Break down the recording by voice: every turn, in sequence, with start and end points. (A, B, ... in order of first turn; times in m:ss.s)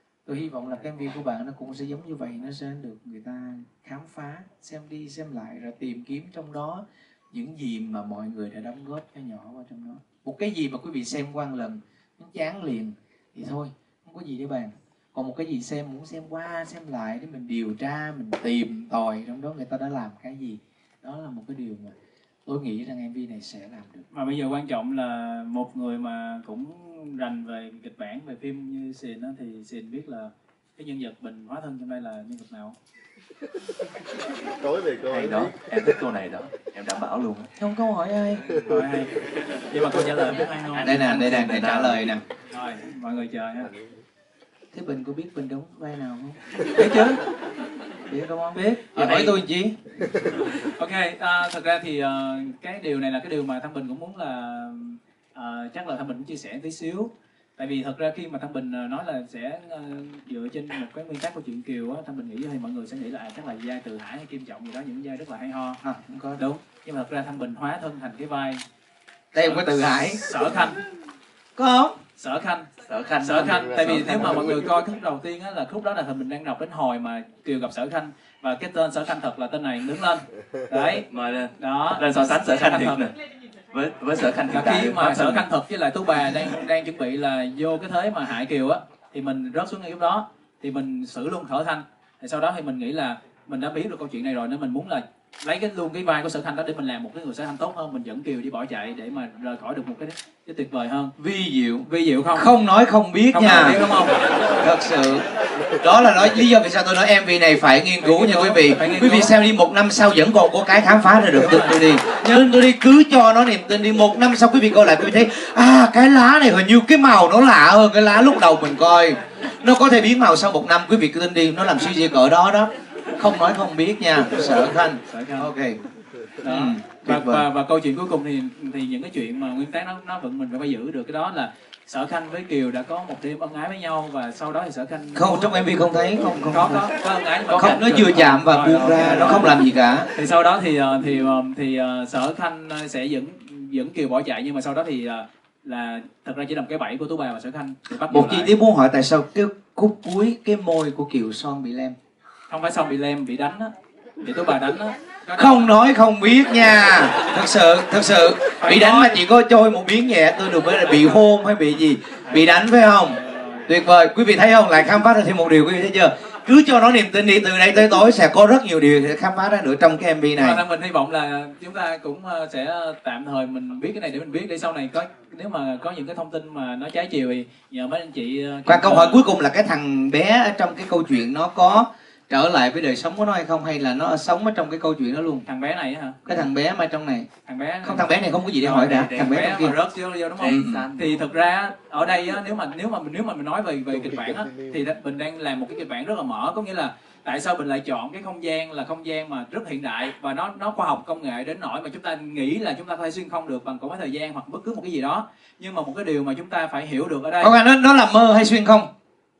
0:00.2-0:21.9 A
0:22.4-0:24.0 A
0:24.1-0:32.8 B
0:34.6-0:35.6 C
0:35.0-0:37.5 D
0:37.6-0:38.4 A
0:38.6-0:39.1 B
0:39.7-0:41.0 B
0:40.8-0:42.2 A
0:40.8-0:42.1 D
0:42.5-0:43.7 B
0:44.7-0:46.5 A
0:46.7-0:47.2 B
0:48.1-0:49.7 A
0:48.5-0:49.4 B
0:50.3-1:05.8 B
1:05.8-1:06.4 A
1:06.4-1:08.6 B
1:09.3-1:10.2 A
1:09.4-1:10.8 B
1:11.6-1:11.9 A
1:12.2-1:12.7 B
1:12.9-1:14.4 D
1:13.2-1:23.0 B
1:13.6-1:14.6 C
1:21.1-1:23.1 D
1:23.7-1:25.5 D
1:24.5-1:41.1 B
1:41.2-1:43.8 A
1:41.8-1:42.5 B
1:43.3-1:44.2 B
1:44.6-2:05.8 A
1:48.0-1:49.3 B
1:51.3-1:52.4 B
2:05.1-2:05.5 B
2:06.4-2:15.6 B
2:06.4-2:07.4 A
2:15.1-2:16.8 A
2:16.5-2:19.6 B
2:17.5-2:20.1 A
2:17.6-2:18.2 D
2:18.8-2:19.5 D
2:20.1-2:28.5 B
2:28.1-2:31.9 A
2:32.5-2:35.7 B
2:35.3-2:50.6 A
2:38.6-2:39.2 B
2:40.8-2:41.2 B
2:42.2-2:43.7 B
2:50.4-2:59.3 B
2:58.6-3:05.4 A
3:05.4-3:06.2 B
3:06.2-3:07.3 A
3:07.4-3:08.1 B
3:07.8-3:09.8 A
3:08.6-3:09.4 D
3:09.2-3:27.5 B
3:10.4-3:11.1 D
3:10.4-3:10.9 A
3:14.0-3:14.7 C
3:27.4-3:28.9 A